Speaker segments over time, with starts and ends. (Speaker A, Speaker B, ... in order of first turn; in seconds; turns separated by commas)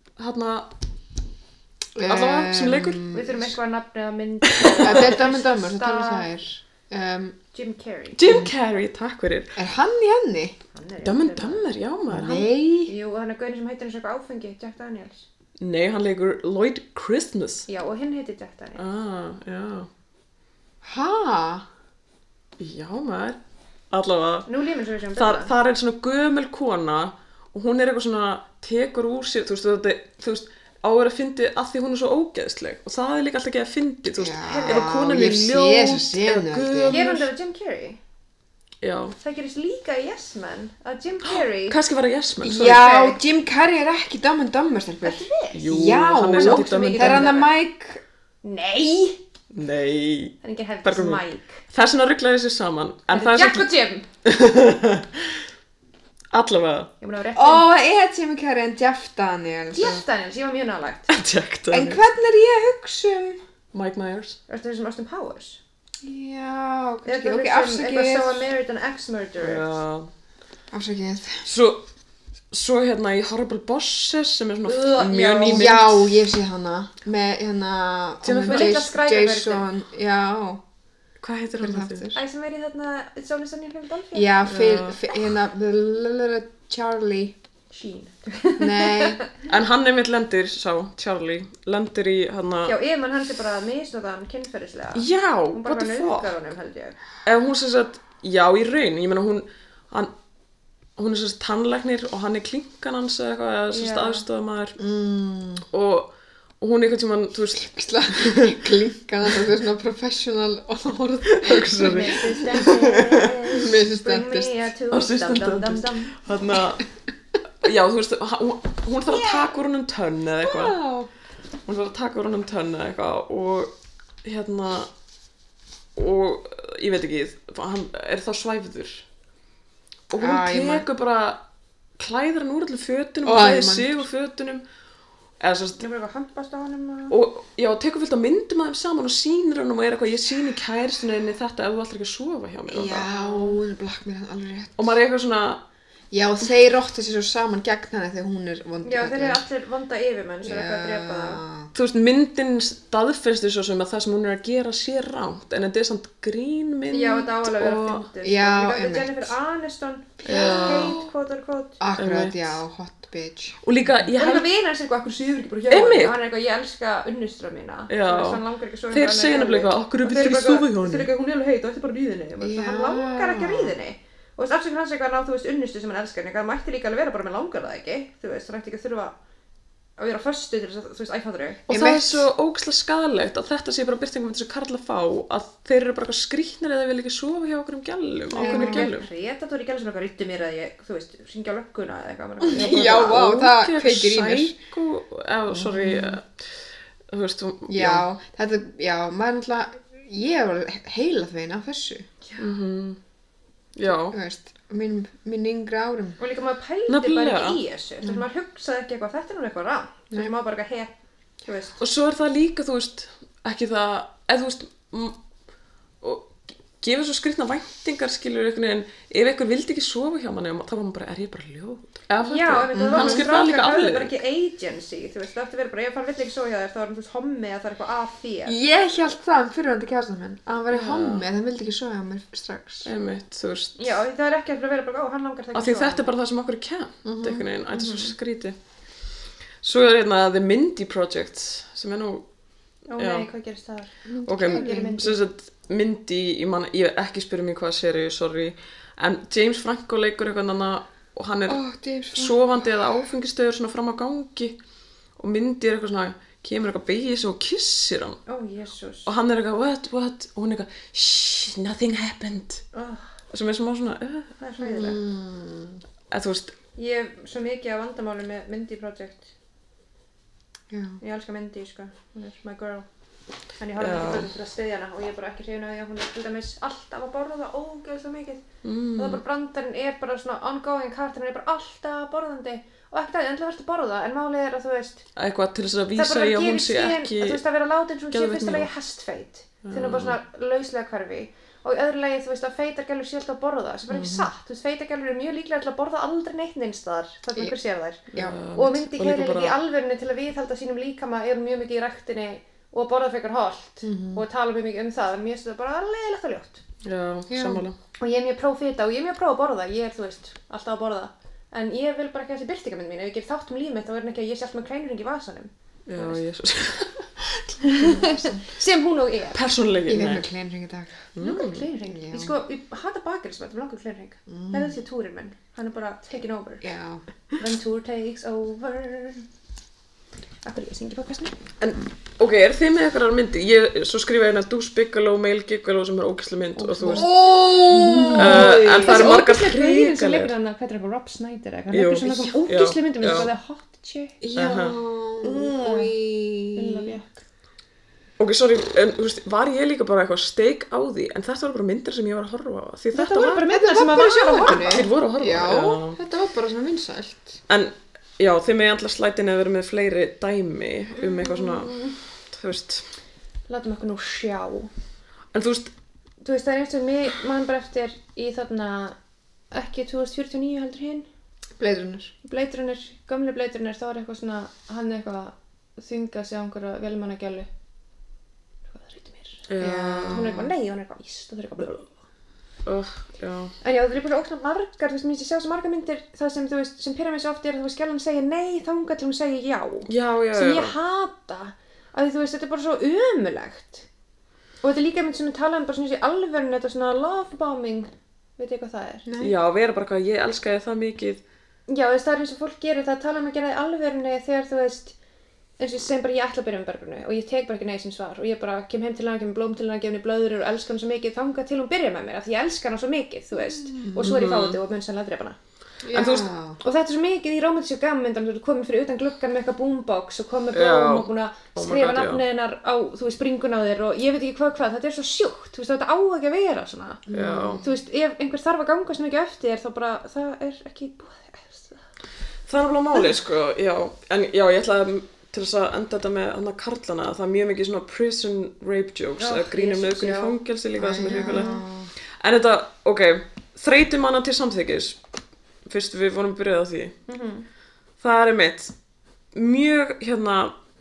Speaker A: 0.2-0.7, Speaker B: 1.9-3.5, Speaker A: 2.0-3.1, Speaker C: 3.1-6.3, Speaker A: 4.5-5.2, Speaker B: 4.8-7.4, Speaker C: 7.5-8.2, Speaker A: 8.1-9.6, Speaker B: 8.2-8.5, Speaker B: 9.6-10.6, Speaker C: 10.7-11.7, Speaker A: 11.0-12.5, Speaker B: 12.1-12.9, Speaker C: 12.9-15.2, Speaker A: 15.6-17.7, Speaker C: 17.7-18.8, Speaker A: 18.8-19.9, Speaker B: 20.8-21.6, Speaker A: 22.6-23.4, Speaker A: 23.9-24.5, Speaker C: 24.5-25.5, Speaker A: 25.1-37.3, Speaker B: 34.2-37.0, Speaker C: 34.4-34.9, Speaker C: 36.9-38.0, Speaker A: 38.8-39.1, Speaker C: 39.2-41.8, Speaker A: 41.2-42.9, Speaker B: 42.4-48.0, Speaker C: 42.5-43.2, Speaker C: 45.0-45.7, Speaker A: 45.5-47.4, Speaker C: 46.3-47.5, Speaker C: 48.4-49.2, Speaker A: 49.5-53.7, Speaker C: 50.4-51.6, Speaker C: 53.1-54.0, Speaker A: 54.2-55.3, Speaker A: 56.3-56.9, Speaker C: 57.0-57.7, Speaker B: 57.4-60.0, Speaker C: 59.7-61.1, Speaker A: 61.1-62.0, Speaker B: 61.7-63.4, Speaker A: 63.7-64.4, Speaker C: 64.5-65.6, Speaker B: 66.0-68.5, Speaker C: 67.0-69.7, Speaker A: 69.4-70.1, Speaker B: 70.7-71.5, Speaker A: 71.5-71.8, Speaker A: 72.5-76.1, Speaker C: 74.6-75.8, Speaker B: 75.4-80.6, Speaker A: 78.2-78.8, Speaker C: 78.5-79.6, Speaker A: 81.2-82.1, Speaker B: 81.6-82.2, Speaker C: 82.1-84.4, Speaker B: 84.1-87.4, Speaker A: 84.5-85.0, Speaker C: 87.7-89.3, Speaker B: 88.6-89.2, Speaker A: 89.5-92.8, Speaker C: 92.7-97.0, Speaker A: 94.9-96.3, Speaker A: 97.2-100.1, Speaker A: 101.0-104.8, Speaker C: 103.7-104.2, Speaker B: 104.8-105.7, Speaker A: 105.7-108.6, Speaker B: 107.6-112.4, Speaker A: 111.3-113.3, Speaker C: 111.8-116.2, Speaker B: 113.5-114.5, Speaker A: 114.9-116.8, Speaker A: 117.6-120.8, Speaker C: 119.1-119.5, Speaker B: 120.4-121.1, Speaker A: 121.7-123.7, Speaker A: 124.2-124.9, Speaker A: 126.0-129.0, Speaker A: 130.1-131.4, Speaker B: 130.2-130.9, Speaker A: 132.0-134.6, Speaker B: 133.2-134.0, Speaker A: 135.4-135.8, Speaker C: 135.8-137.2, Speaker A: 137.1-143.1, Speaker B: 142.7-144.9, Speaker C: 143.1-143.6, Speaker A: 144.8-145.6, Speaker B: 146.1-149.4, Speaker C: 148.8-151.4, Speaker B: 150.4-151.7, Speaker A: 151.7-158.1, Speaker C: 156.9-161.8, Speaker B: 158.2-159.3, Speaker B: 160.2-161.1, Speaker A: 160.2-161.0, Speaker B: 161.8-163.6, Speaker A: 161.9-162.6, Speaker A: 163.6-164.5, Speaker C: 164.1-179.2, Speaker A: 165.7-166.2, Speaker A: 167.9-171.1, Speaker B: 172.4-173.7, Speaker C: 180.0-181.6, Speaker A: 181.7-189.1, Speaker B: 181.7-182.3, Speaker B: 188.3-188.9, Speaker C: 188.3-193.2, Speaker B: 192.4-194.6, Speaker A: 192.5-196.4, Speaker B: 195.5-196.2, Speaker A: 197.1-198.0, Speaker B: 197.7-202.1, Speaker A: 202.4-203.0, Speaker A: 203.8-204.2, Speaker B: 203.9-206.2, Speaker C: 206.2-211.8, Speaker A: 206.9-207.6, Speaker A: 211.8-215.2, Speaker A: 216.0-224.2, Speaker C: 222.2-228.6, Speaker B: 222.7-223.3, Speaker B: 228.4-232.9, Speaker A: 230.7-231.2, Speaker A: 232.8-234.0, Speaker C: 233.8-236.1, Speaker A: 235.5-238.6, Speaker B: 237.0-237.5, Speaker C: 237.7-238.1, Speaker A: 239.6-242.2, Speaker C: 242.9-245.2, Speaker A: 243.0-243.3, Speaker B: 244.1-245.0, Speaker A: 244.2-251.6, Speaker B: 251.5-252.5, Speaker A: 252.1-254.6, Speaker A: 255.2-258.2, Speaker C: 258.3-259.1, Speaker A: 259.1-262.6, Speaker C: 262.7-263.0, Speaker A: 263.3-264.3, Speaker C: 264.4-265.0, Speaker B: 264.6-265.8, Speaker A: 266.1-266.5, Speaker C: 266.8-269.3, Speaker B: 270.7-271.0, Speaker C: 271.0-272.9, Speaker C: 273.6-278.4, Speaker A: 273.8-274.3, Speaker A: 278.6-279.2, Speaker C: 278.9-285.0, Speaker A: 285.1-287.4, Speaker C: 285.9-306.6, Speaker A: 288.1-288.7, Speaker A: 289.6-290.2, Speaker B: 293.9-294.3, Speaker A: 298.1-299.6, Speaker B: 303.8-304.2, Speaker A: 306.8-307.8, Speaker B: 307.3-307.6, Speaker C: 308.0-316.2, Speaker A: 315.9-317.6, Speaker C: 317.6-319.4, Speaker B: 317.8-318.4, Speaker A: 319.3-320.3, Speaker B: 319.9-320.9, Speaker A: 321.1-321.6, Speaker C: 321.2-326.6, Speaker B: 321.9-322.3, Speaker B: 324.3-324.8, Speaker B: 326.6-327.0, Speaker C: 327.4-329.2, Speaker C: 330.4-331.4, Speaker A: 331.6-337.5, Speaker C: 336.6-344.2, Speaker B: 336.8-339.2, Speaker A: 338.1-340.3, Speaker A: 341.7-343.3, Speaker B: 344.2-347.0, Speaker A: 344.4-344.8, Speaker C: 345.2-345.9, Speaker C: 346.5-347.2, Speaker A: 348.2-353.4, Speaker C: 352.9-354.9, Speaker B: 353.4-357.4, Speaker A: 354.5-356.0, Speaker A: 357.5-362.9, Speaker C: 361.0-362.0, Speaker C: 363.5-364.7, Speaker A: 365.3-365.7, Speaker C: 366.2-369.0, Speaker C: 369.5-371.1, Speaker B: 371.6-372.1, Speaker C: 372.2-377.5, Speaker C: 378.7-379.4, Speaker A: 379.5-380.4, Speaker B: 379.6-380.5, Speaker C: 380.1-382.0, Speaker A: 382.6-383.5, Speaker C: 383.6-393.9, Speaker A: 389.9-390.7, Speaker C: 394.6-399.0, Speaker B: 399.0-399.4, Speaker A: 399.2-401.2, Speaker C: 401.7-404.9, Speaker C: 405.6-415.4, Speaker B: 413.3-414.1, Speaker A: 414.0-414.6, Speaker B: 415.8-416.6, Speaker A: 415.9-416.3, Speaker C: 416.6-427.0, Speaker A: 420.5-422.2, Speaker B: 427.1-427.7, Speaker A: 427.1-427.6, Speaker C: 427.6-431.8, Speaker A: 432.5-441.5, Speaker C: 439.2-440.4, Speaker B: 440.7-441.9, Speaker C: 441.1-441.6, Speaker A: 442.2-445.0, Speaker A: 445.6-446.9, Speaker C: 447.1-447.4, Speaker A: 448.0-448.7, Speaker A: 449.3-450.5